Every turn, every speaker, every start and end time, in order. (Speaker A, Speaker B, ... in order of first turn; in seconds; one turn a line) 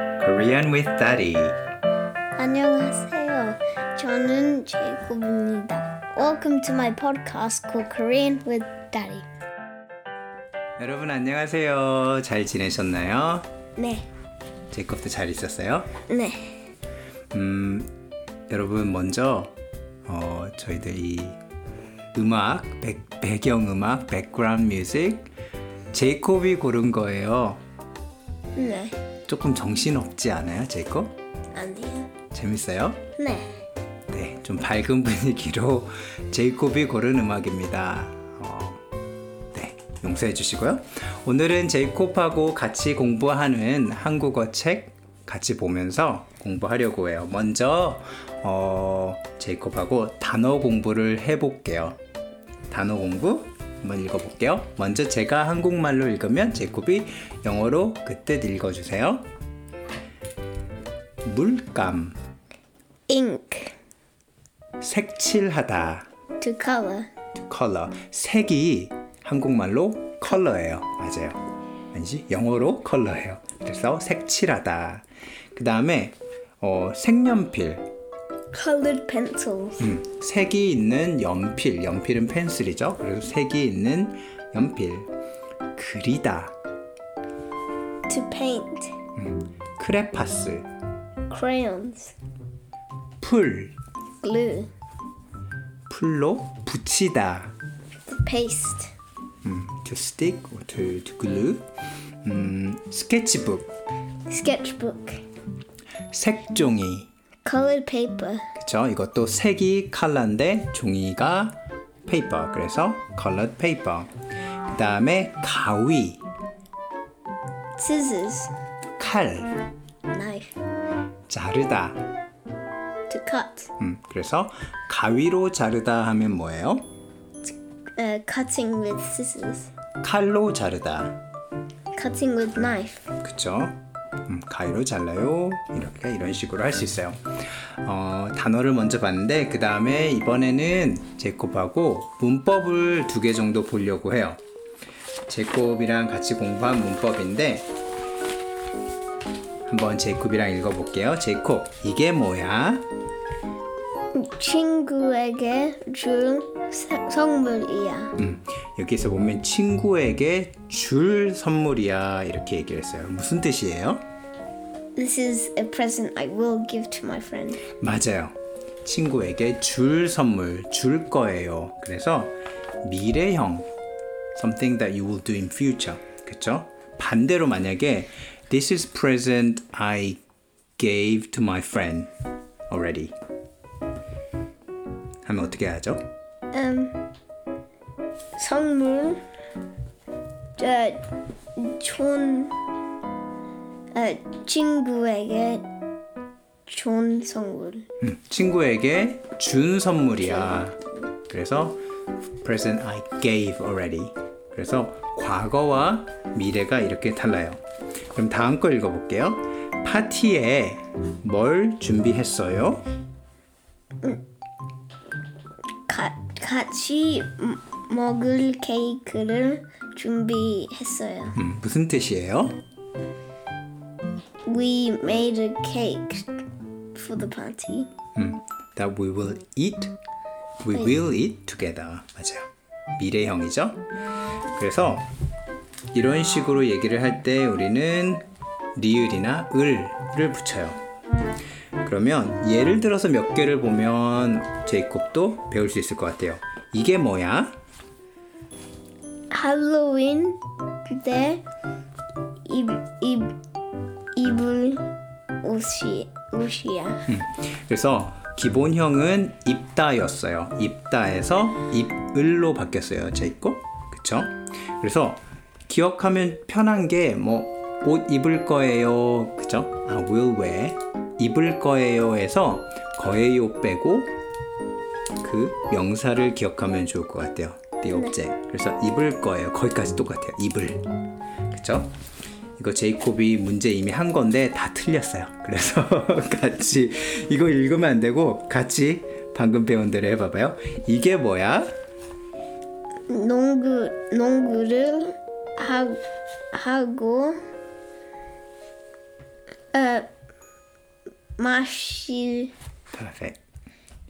Speaker A: 0.2-1.6
Speaker B: 2.4-9.2
Speaker A: 10.8-13.5
Speaker B: 13.8-14.1
Speaker A: 14.7-16.0
Speaker B: 16.1-16.6
Speaker A: 17.3-17.9
Speaker A: 18.5-19.5
Speaker A: 20.1-21.4
Speaker A: 22.1-25.3
Speaker A: 25.9-27.6
Speaker B: 28.5-29.0
Speaker A: 29.3-31.1
Speaker B: 31.5-32.1
Speaker A: 32.3-33.0
Speaker B: 33.2-33.6
Speaker A: 34.1-38.8
Speaker A: 39.5-52.0
Speaker A: 52.7-59.2
Speaker A: 61.2-62.2
Speaker B: 63.1-63.8
Speaker A: 64.8-66.1
Speaker B: 66.4-67.1
Speaker A: 67.3-71.4
Speaker A: 71.9-77.8
Speaker B: 78.5-79.8
Speaker A: 79.8-85.1
Speaker A: 85.8-86.5
Speaker B: 88.1-88.9
Speaker A: 89.2-90.7
Speaker B: 91.3-92.1
Speaker A: 93.2-93.7
Speaker B: 94.2-94.7
Speaker A: 95.9-97.5
Speaker B: 98.1-98.9
Speaker A: 99.4-101.7
Speaker A: 102.2-103.7
Speaker B: 104.3-105.2
Speaker A: 106.1-107.1
Speaker B: 107.4-108.5
Speaker A: 108.6-114.1
Speaker A: 114.7-116.2
Speaker B: 117.8-118.5
Speaker A: 119.0-119.5
Speaker B: 120.1-120.5
Speaker A: 121.3-122.0
Speaker B: 123.1-123.7
Speaker A: 123.8-126.8
Speaker B: 127.4-129.7
Speaker A: 130.0-131.2
Speaker B: 131.9-133.1
Speaker A: 133.2-137.2
Speaker A: 137.8-144.4
Speaker A: 145.3-147.7
Speaker A: 149.7-152.9
Speaker B: 154.1-158.2
Speaker A: 158.2-164.0
Speaker B: 164.9-167.6
Speaker A: 167.8-173.7
Speaker A: 174.3-180.2
Speaker A: 180.8-182.1
Speaker A: 182.7-183.1
Speaker A: 185.2-186.0
Speaker B: 186.5-187.0
Speaker B: 188.3-189.2
Speaker B: 190.6-192.5
Speaker B: 193.9-195.7
Speaker B: 196.7-197.8
Speaker A: 198.0-200.8
Speaker A: 201.3-201.8
Speaker A: 202.4-207.6
Speaker A: 208.1-212.8
Speaker B: 215.9-221.4
Speaker A: 221.3-222.6
Speaker B: 224.4-226.4
Speaker B: 226.9-227.9
Speaker A: 228.2-229.9
Speaker A: 230.6-233.8
Speaker A: 234.6-235.1
Speaker A: 235.9-238.2
Speaker A: 238.8-240.8
Speaker A: 241.8-247.6
Speaker B: 249.3-251.4
Speaker B: 252.4-253.3
Speaker B: 254.1-254.9
Speaker B: 255.4-257.0
Speaker A: 257.1-274.1
Speaker A: 275.2-280.9
Speaker A: 281.5-281.9
Speaker A: 282.6-291.7
Speaker B: 293.1-296.0
Speaker B: 296.5-297.4
Speaker B: 299.7-300.1
Speaker B: 301.4-302.5
Speaker A: 302.9-303.4